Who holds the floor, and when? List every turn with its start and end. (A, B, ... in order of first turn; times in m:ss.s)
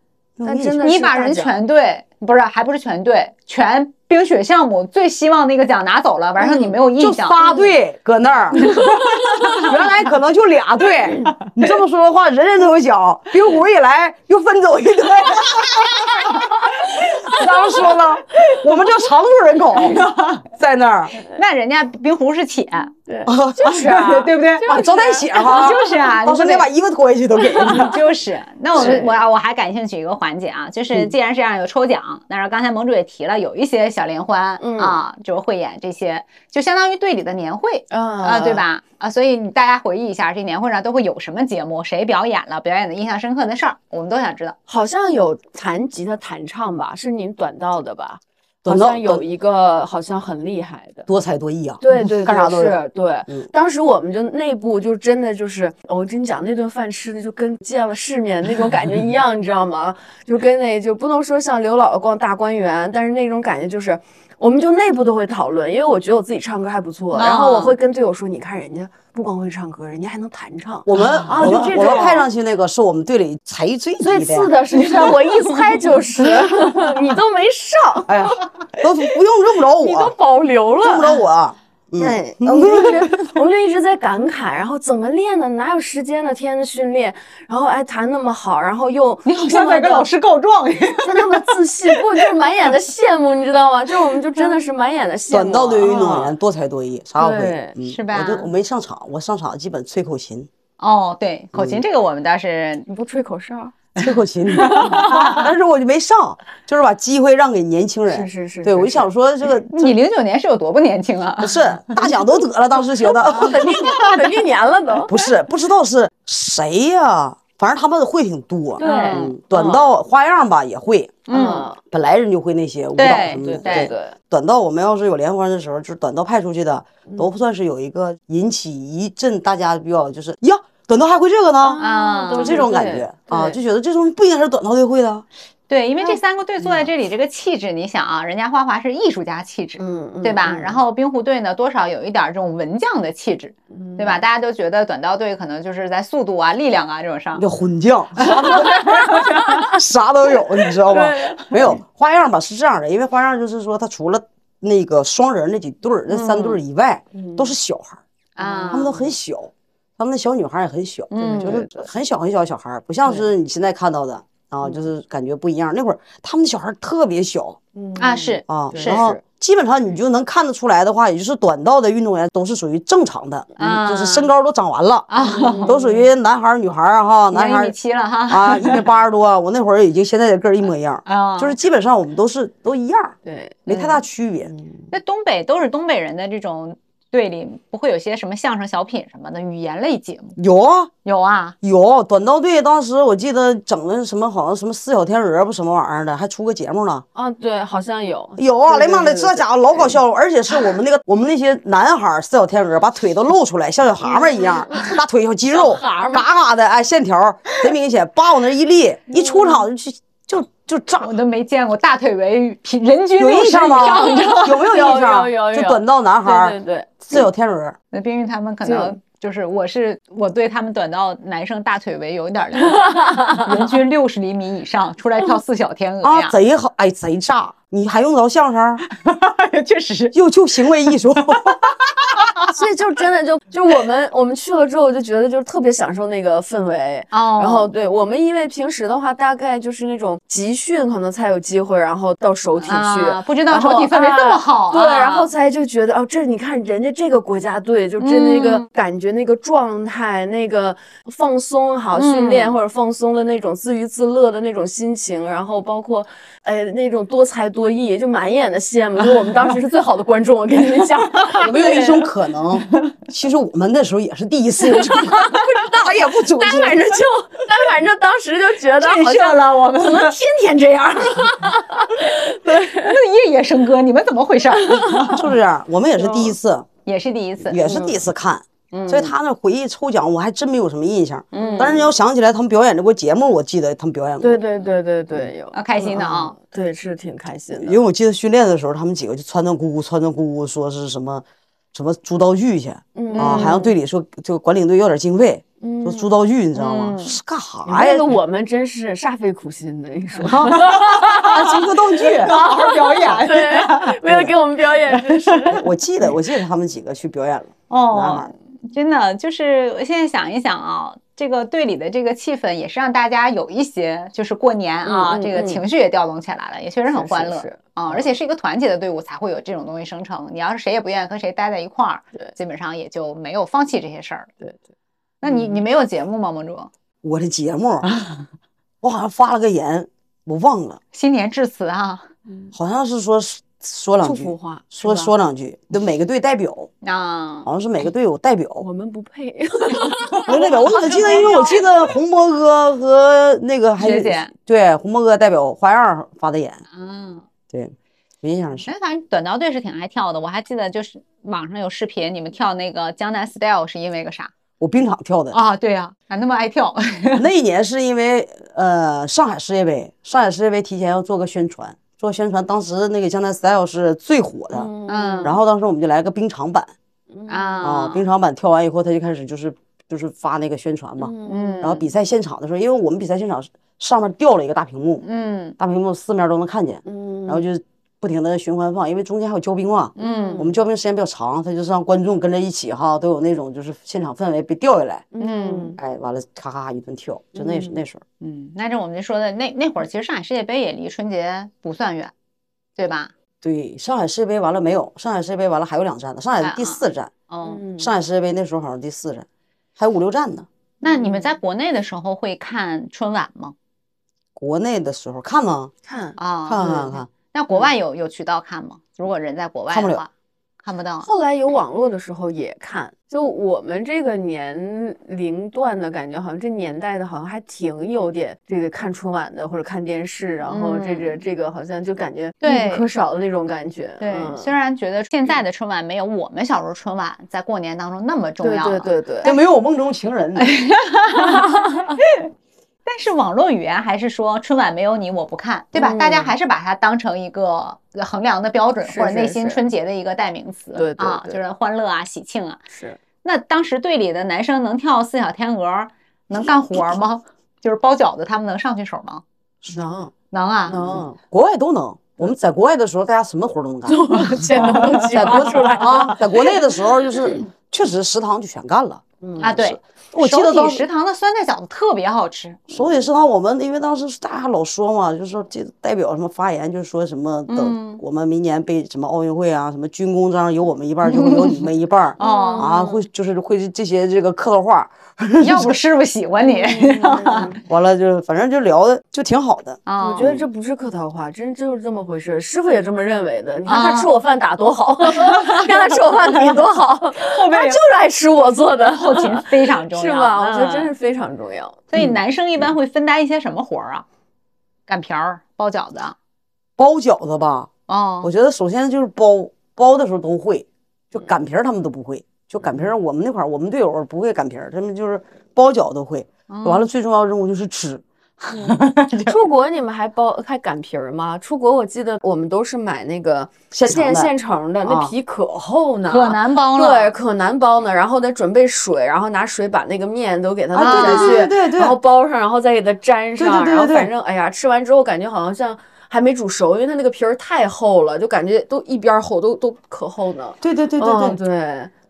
0:00.4-0:00.9 A
0:00.4-0:01.6 B
0:00.8-0:07.7 C
0:06.4-0:06.7 B
0:07.0-0:08.8 A
0:08.6-0:09.7 C
0:09.6-0:20.0 A
0:19.7-0:20.4 C
0:20.5-0:21.1 A
0:21.3-0:22.9 C
0:23.1-0:26.0 B
0:23.3-0:23.7 A
0:23.6-0:24.8 C
0:24.6-0:28.0 A
0:25.3-0:26.7 C
0:27.6-0:44.6 C
0:28.8-0:29.2 B
0:34.6-0:35.0 B
0:37.9-0:38.6 B
0:44.7-0:51.1 B
0:48.6-0:49.2 A
0:51.1-0:52.8 A
0:51.8-1:12.3 B
1:07.2-1:07.8 C
1:10.9-1:15.1 A
1:14.0-1:18.3 B
1:18.1-1:20.1 A
1:19.8-1:21.2 B
1:20.8-1:23.3 A
1:22.0-1:30.1 B
1:29.3-1:32.2 C
1:31.0-1:36.4 B
1:35.3-1:40.5 A
1:35.8-1:36.2 C
1:37.2-1:37.8 B
1:37.8-1:38.5 C
1:40.8-1:42.9 C
1:41.5-1:41.8 A
1:42.9-1:43.8 B
1:44.0-1:50.0 A
1:44.6-1:45.4 C
1:44.6-1:45.4 B
1:48.1-1:49.1 B
1:49.7-1:52.0 C
1:51.4-1:53.8 A
1:53.2-1:55.1 B
1:53.6-1:54.2 C
1:55.1-2:11.8 A
1:58.8-1:59.4 B
1:58.8-1:59.8 C
2:01.3-2:01.7 C
2:01.3-2:01.8 B
2:03.0-2:03.9 C
2:03.1-2:04.2 B
2:11.6-2:13.6 B
2:11.8-2:12.7 C
2:12.4-2:15.2 A
2:15.7-2:27.4 C
2:19.8-2:20.8 B
2:23.7-2:24.2 B
2:27.4-2:38.0 A
2:28.2-2:29.7 C
2:30.9-2:31.8 B
2:36.2-2:36.6 B
2:37.1-2:37.5 B
2:38.4-2:38.9 C
2:38.4-2:39.1 B
2:38.7-2:47.6 A
2:41.1-2:41.6 C
2:41.2-2:41.7 B
2:43.0-2:43.3 B
2:47.8-2:49.2 B
2:48.0-2:49.0 C
2:48.5-2:55.1 A
2:53.6-2:54.3 C
2:55.1-2:55.8 C
2:55.2-2:56.1 B
2:55.6-2:57.8 A
2:57.3-2:58.8 C
2:58.3-3:04.5 A
3:01.1-3:01.6 C
3:03.2-3:03.8 B
3:04.4-3:04.9 B
3:04.9-3:10.4 C
3:10.4-3:10.9 A
3:11.0-3:11.6 C
3:11.6-3:17.0 A
3:17.1-3:20.0 B
3:18.4-3:31.1 A
3:24.0-3:26.2 B
3:29.1-3:29.6 B
3:31.0-3:34.6 C
3:33.2-3:37.8 A
3:33.8-3:37.2 B
3:37.9-3:46.4 C
3:38.6-3:38.9 B
3:42.6-3:43.7 B
3:46.0-3:48.8 A
3:48.9-3:50.1 C
3:50.1-3:51.6 A
3:51.4-3:52.6 C
3:52.5-4:22.1 B
3:57.1-3:57.7 C
4:02.6-4:05.3 C
4:08.0-4:08.7 C
4:12.0-4:12.6 C
4:21.4-4:26.9 A
4:24.7-4:33.0 B
4:28.8-4:30.2 C
4:32.5-4:35.2 C
4:34.6-4:35.2 B
4:35.1-4:36.7 A
4:36.0-4:36.4 B
4:36.9-4:37.7 C
4:37.5-4:44.4 A
4:37.6-4:38.0 B
4:38.7-4:39.1 B
4:41.3-4:41.8 C
4:41.4-4:41.9 B
4:44.2-4:47.8 B
4:45.5-4:46.4 C
4:47.5-4:58.1 A
4:53.0-4:53.7 B
4:53.1-4:53.6 C
4:55.6-4:56.1 B
4:56.6-4:57.2 C
4:57.6-5:05.7 B
5:00.2-5:01.5 C
5:00.3-5:02.4 A
5:02.1-5:04.2 C
5:05.1-5:05.5 C
5:05.5-5:08.3 A
5:07.7-5:24.3 C
5:14.8-5:15.6 B
5:16.9-5:18.1 B
5:25.2-5:26.7 C
5:25.2-5:25.6 B
5:27.0-5:27.9 A
5:28.8-5:30.8 A
5:30.9-5:32.1 C
5:32.5-5:36.7 A
5:34.0-5:35.1 B
5:36.8-5:37.5 C
5:37.4-5:38.6 A
5:38.6-5:41.6 B
5:40.3-5:46.6 A
5:43.8-5:44.3 C
5:46.7-5:47.3 C
5:47.5-5:48.7 A
5:48.6-5:54.3 C
5:54.6-5:55.4 A
5:55.3-5:57.3 C
5:57.2-6:04.7 A
6:04.5-6:05.4 B
6:04.9-6:05.4 C
6:05.2-6:06.7 A
6:07.1-6:07.7 B
6:07.3-6:08.0 C
6:07.6-6:15.0 A
6:11.0-6:11.7 B
6:11.3-6:11.8 C
6:15.0-6:15.6 C
6:15.6-6:25.1 A
6:16.9-6:17.4 B
6:20.0-6:20.5 C
6:20.0-6:20.5 B
6:25.1-6:25.8 B
6:25.2-6:25.8 C
6:25.8-6:28.0 A
6:27.4-6:27.8 B
6:28.2-6:32.1 C
6:32.8-6:33.1 C
6:33.4-6:37.1 A
6:36.4-6:37.6 C
6:37.5-6:37.9 B
6:37.8-6:39.3 A
6:39.8-6:40.5 A
6:40.8-6:43.6 C
6:40.8-6:41.3 B
6:44.4-6:45.7 A
6:45.9-6:46.9 B
6:46.2-6:50.1 C
6:46.5-6:47.1 A
6:49.7-6:50.0 A
6:50.6-6:51.1 C
6:51.0-7:04.5 B
7:00.5-7:01.2 C
7:02.4-7:02.8 C
7:04.0-7:09.4 C
7:08.4-7:09.3 B
7:09.2-7:10.6 A
7:10.4-7:12.3 C
7:12.9-7:22.6 C
7:15.7-7:16.3 B
7:18.9-7:19.6 B
7:20.8-7:21.4 B
7:22.7-7:23.0 B
7:23.2-7:29.2 C
7:29.7-7:30.1 B
7:30.3-7:31.0 C
7:30.7-7:31.2 B
7:31.3-7:40.9 A
7:33.9-7:36.3 B
7:34.5-7:35.5 C
7:39.2-7:39.6 B
7:39.4-7:42.7 C
7:42.7-7:55.8 A
7:47.5-7:48.0 C
7:51.1-7:51.4 C
7:52.2-7:52.7 C
7:52.2-7:53.0 B
7:55.4-7:57.6 C
7:56.4-7:57.6 B
7:57.7-8:00.5 A
7:59.9-8:00.3 C
8:00.0-8:12.1 B
8:03.7-8:04.1 C
8:05.1-8:06.6 C
8:07.2-8:07.8 C
8:08.9-8:10.9 C
8:11.9-8:14.0 C
8:14.9-8:16.2 C
8:16.8-8:17.7 A
8:17.9-8:18.3 C
8:18.2-8:28.0 A
8:26.5-8:26.9 C
8:28.4-8:29.3 C
8:28.5-8:51.9 B
8:33.7-8:34.3 A
8:34.8-8:35.1 A
8:36.1-8:37.1 C
8:40.7-8:42.0 A
8:40.8-8:41.5 C
8:43.4-8:44.1 A
8:50.6-8:51.4 A